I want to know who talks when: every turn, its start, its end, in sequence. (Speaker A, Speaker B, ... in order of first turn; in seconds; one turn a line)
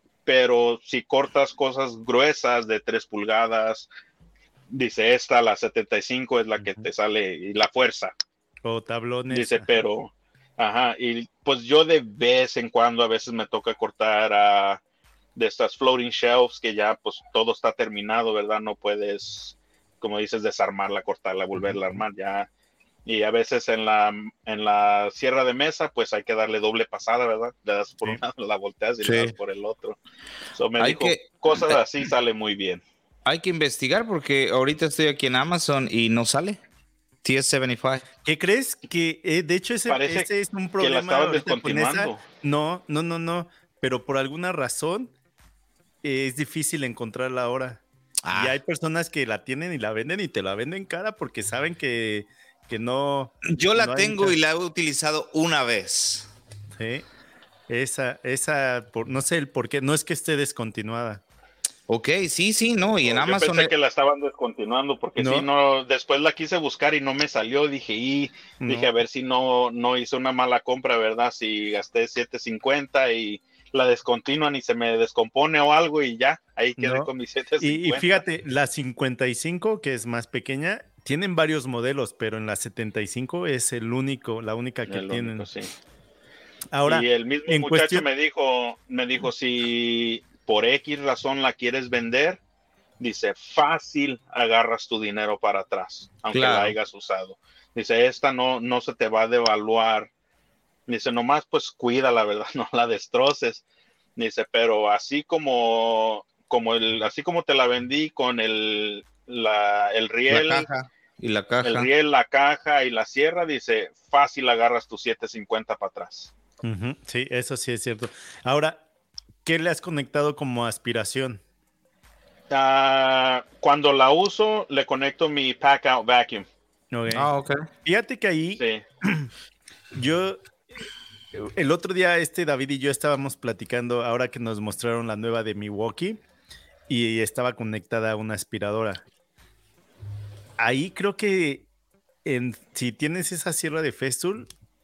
Speaker A: 0.2-3.9
Speaker A: 4.7-8.1
Speaker B: 8.6-9.7
Speaker A: 9.3-14.8
Speaker A: 15.3-22.5
Speaker B: 21.6-22.0
Speaker A: 23.1-30.0
Speaker C: 29.0-29.3
Speaker A: 30.5-32.8
Speaker C: 30.8-31.8
Speaker C: 33.2-36.6
Speaker C: 37.2-38.0
Speaker B: 38.2-45.1
Speaker A: 39.9-42.2
Speaker B: 46.0-54.4
Speaker C: 48.2-48.6
Speaker C: 53.4-56.3
Speaker B: 56.7-57.0
Speaker B: 57.7-61.2
Speaker C: 61.9-63.7
Speaker A: 63.0-78.2
Speaker B: 65.2-65.5
Speaker B: 68.6-68.9
Speaker B: 76.8-77.1
Speaker B: 77.6-85.5
Speaker A: 84.9-85.7
Speaker B: 86.7-88.0
Speaker A: 86.8-92.4
Speaker A: 93.0-100.1
Speaker C: 96.3-96.7
Speaker A: 100.9-103.6
Speaker A: 104.2-110.7
Speaker C: 110.3-111.9
Speaker A: 111.6-116.3
Speaker B: 116.6-118.8
Speaker B: 119.4-121.4
Speaker A: 122.5-126.5
Speaker B: 126.9-127.3
Speaker C: 127.1-127.6
Speaker B: 127.8-129.3
Speaker A: 128.6-128.8
Speaker B: 129.9-130.4
Speaker B: 131.3-136.2
Speaker B: 136.9-139.0
Speaker B: 140.6-141.7
Speaker B: 142.2-144.5